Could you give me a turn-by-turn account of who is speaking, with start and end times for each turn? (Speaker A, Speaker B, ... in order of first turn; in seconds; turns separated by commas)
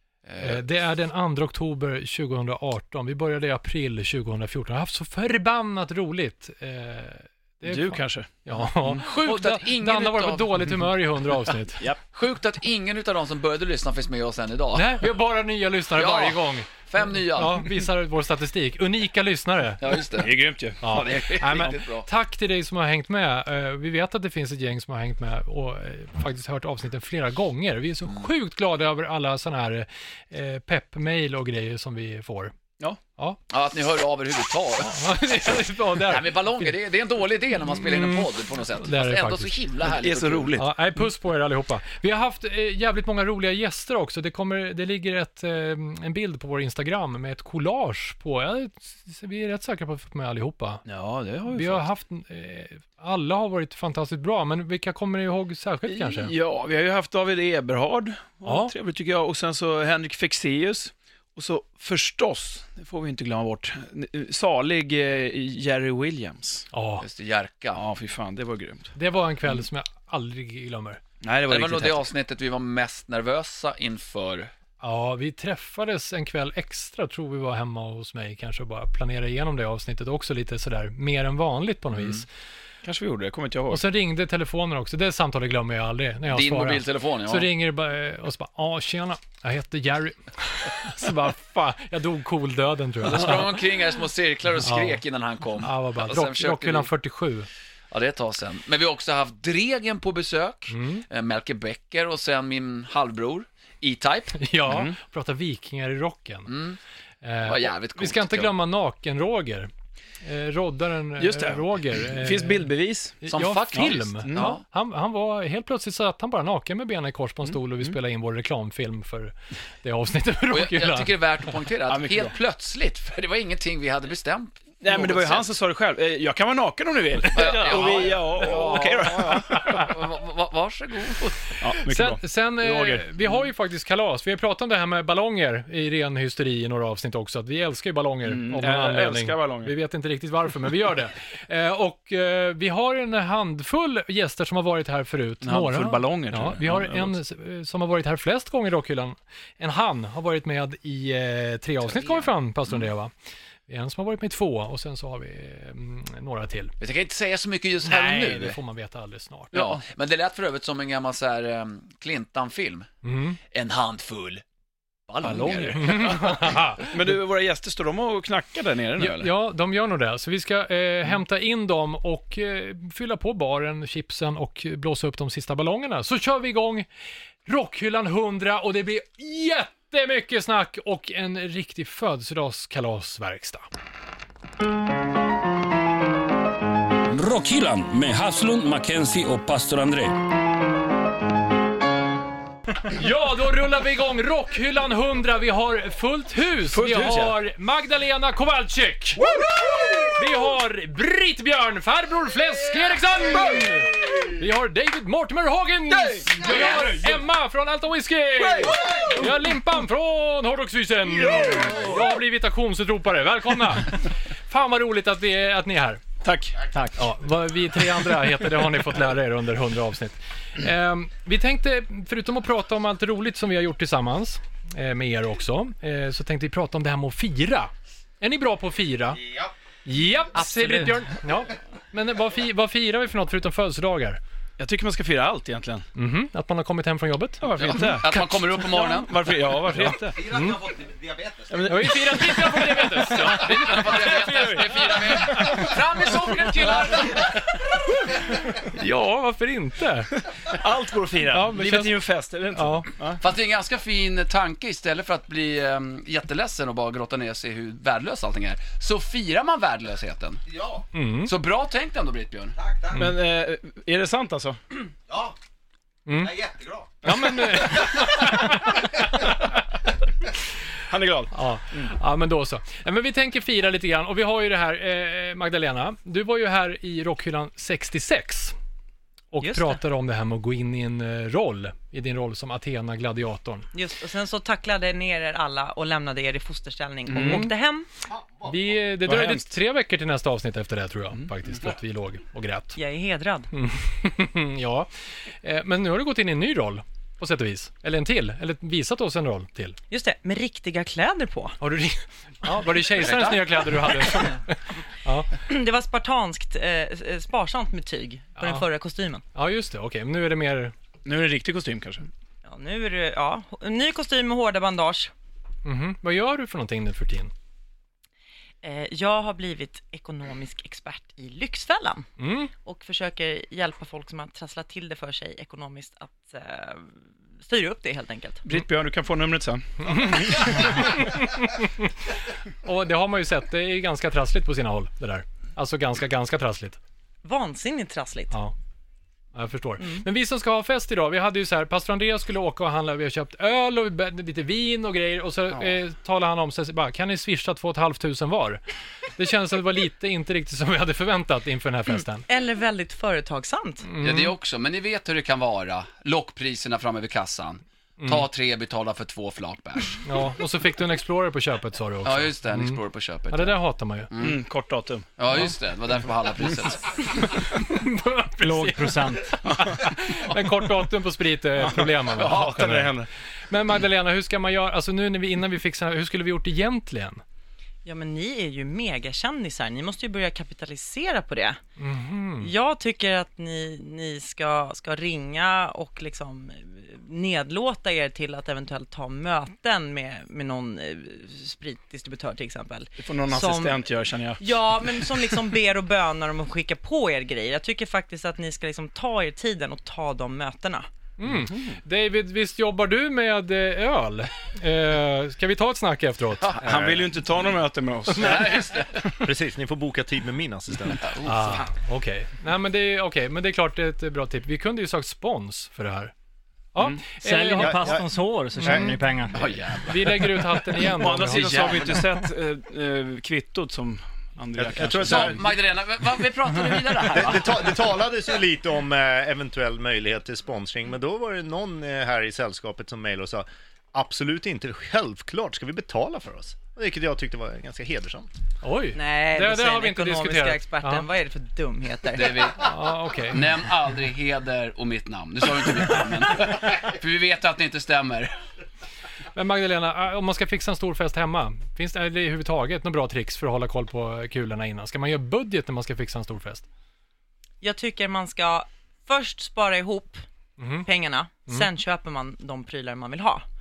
Speaker A: 0.2-0.6, Speaker B: 0.4-11.8, Speaker C: 7.6-8.3, Speaker A: 8.9-10.8, Speaker A: 12.1-15.0, Speaker B: 14.7-19.8, Speaker A: 15.9-17.8, Speaker A: 19.8-22.1, Speaker C: 20.1-21.8, Speaker B: 20.8-32.5, Speaker A: 33.5-35.2, Speaker B: 34.8-36.7, Speaker A: 36.0-40.6, Speaker B: 37.7-39.5, Speaker C: 39.9-40.7, Speaker B: 40.6-50.9, Speaker C: 50.9-51.8, Speaker B: 51.5-56.3, Speaker C: 55.9-66.6, Speaker B: 58.4-58.7, Speaker B: 66.7-67.0, Speaker A: 67.0-67.8, Speaker C: 67.7-68.9, Speaker B: 68.9-71.0, Speaker C: 71.2-72.1, Speaker A: 71.5-74.5, Speaker B: 74.8-82.2, Speaker A: 81.9-82.2, Speaker C: 82.8-83.8, Speaker B: 83.7-93.6, Speaker A: 86.3-87.5, Speaker A: 93.0-96.9, Speaker B: 94.6-95.0, Speaker B: 95.6-97.5, Speaker A: 97.9-104.4, Speaker B: 100.7-101.0, Speaker B: 104.4-106.5, Speaker C: 104.7-104.9, Speaker A: 106.5-106.8, Speaker B: 107.2-109.7, Speaker A: 107.4-108.5, Speaker B: 110.2-112.7, Speaker C: 111.2-113.2, Speaker B: 113.2-121.1, Speaker A: 113.3-114.6, Speaker C: 113.7-114.5, Speaker C: 117.4-118.0, Speaker A: 120.5-125.5, Speaker C: 121.9-122.3, Speaker C: 124.8-129.8, Speaker A: 127.3-131.5, Speaker B: 129.6-129.8, Speaker C: 131.6-133.2, Speaker B: 131.8-153.1, Speaker C: 138.2-139.7, Speaker C: 145.4-147.2, Speaker A: 151.8-152.8, Speaker B: 153.7-156.7, Speaker A: 156.8-158.6, Speaker B: 157.8-159.7, Speaker A: 159.5-162.9, Speaker C: 159.5-159.8, Speaker B: 163.0-163.4, Speaker A: 163.5-164.4, Speaker A: 165.1-166.6, Speaker C: 165.2-169.3, Speaker B: 165.8-166.9, Speaker B: 169.0-176.8, Speaker B: 177.4-183.7, Speaker D: 187.1-190.1, Speaker B: 192.9-199.2, Speaker C: 196.7-197.4, Speaker C: 199.2-200.0, Speaker B: 200.1-216.0, Speaker C: 203.3-203.8, Speaker C: 205.9-207.2, Speaker C: 208.4-209.5, Speaker C: 211.1-212.1, Speaker C: 216.2-216.9, Speaker B: 216.9-229.2, Speaker E: 229.2-229.5, Speaker B: 229.8-234.2, Speaker F: 230.4-230.7, Speaker C: 234.6-235.8, Speaker B: 235.9-238.2, Speaker C: 237.4-240.2, Speaker A: 237.5-239.4, Speaker B: 239.8-240.6, Speaker E: 239.8-242.9, Speaker C: 241.5-244.8, Speaker B: 241.7-244.2, Speaker A: 243.2-247.4, Speaker B: 248.4-250.1, Speaker C: 250.5-253.2, Speaker B: 251.3-251.9, Speaker B: 252.5-252.9, Speaker A: 253.2-260.4, Speaker E: 260.5-260.8, Speaker B: 260.9-261.3, Speaker A: 261.2-262.6, Speaker E: 262.6-263.1, Speaker C: 262.9-264.6, Speaker E: 265.1-265.4, Speaker B: 266.1-266.4, Speaker E: 266.1-268.5, Speaker B: 267.0-269.6, Speaker C: 270.9-271.9, Speaker B: 271.3-278.5, Speaker B: 279.3-283.7, Speaker G: 279.4-279.8, Speaker G: 283.7-287.9, Speaker C: 287.1-287.5, Speaker E: 288.1-288.7, Speaker B: 288.4-292.8, Speaker C: 289.0-289.5, Speaker G: 292.7-293.5, Speaker B: 293.5-294.9, Speaker B: 295.4-299.8, Speaker G: 299.9-301.6, Speaker B: 301.6-305.3, Speaker A: 302.9-304.1, Speaker G: 305.4-309.2, Speaker B: 308.4-308.6, Speaker B: 309.3-310.7, Speaker C: 311.0-312.1, Speaker G: 312.4-315.1, Speaker B: 315.6-317.3, Speaker G: 318.6-328.4, Speaker B: 322.2-322.5, Speaker C: 328.4-330.6, Speaker B: 329.8-331.9, Speaker B: 332.6-336.8, Speaker G: 337.2-338.3, Speaker B: 339.3-348.6, Speaker B: 349.1-352.2, Speaker G: 352.2-353.9, Speaker B: 353.8-354.3, Speaker A: 354.0-360.0, Speaker B: 358.0-358.3, Speaker B: 360.0-362.8, Speaker A: 362.0-363.6, Speaker B: 363.3-364.1, Speaker A: 364.1-364.4, Speaker C: 364.1-365.1, Speaker A: 365.2-367.4, Speaker B: 367.2-377.2, Speaker F: 368.4-369.4, Speaker C: 369.4-369.8, Speaker C: 371.6-373.1, Speaker G: 377.8-381.6, Speaker B: 381.8-382.5, Speaker G: 382.4-393.8, Speaker C: 393.0-394.9, Speaker G: 394.4-400.9, Speaker B: 401.2-406.5, Speaker C: 401.3-401.8, Speaker C: 406.6-408.9, Speaker H: 406.6-407.1, Speaker A: 408.2-409.1, Speaker B: 408.2-408.5, Speaker H: 409.2-411.1, Speaker A: 410.9-411.7, Speaker B: 411.2-416.1, Speaker B: 416.7-418.0, Speaker C: 416.8-417.2, Speaker F: 417.2-419.4, Speaker H: 417.6-418.1, Speaker B: 418.6-419.0, Speaker H: 418.6-418.9, Speaker A: 419.3-420.4, Speaker B: 419.9-421.9, Speaker C: 420.2-425.4, Speaker A: 421.2-422.0, Speaker H: 424.6-425.4, Speaker A: 425.0-427.8, Speaker H: 427.1-438.3, Speaker B: 438.6-441.1, Speaker G: 438.9-442.6, Speaker A: 442.1-448.3, Speaker B: 442.6-443.4, Speaker B: 449.3-456.6, Speaker G: 457.6-460.2, Speaker B: 460.6-460.9, Speaker G: 460.8-463.4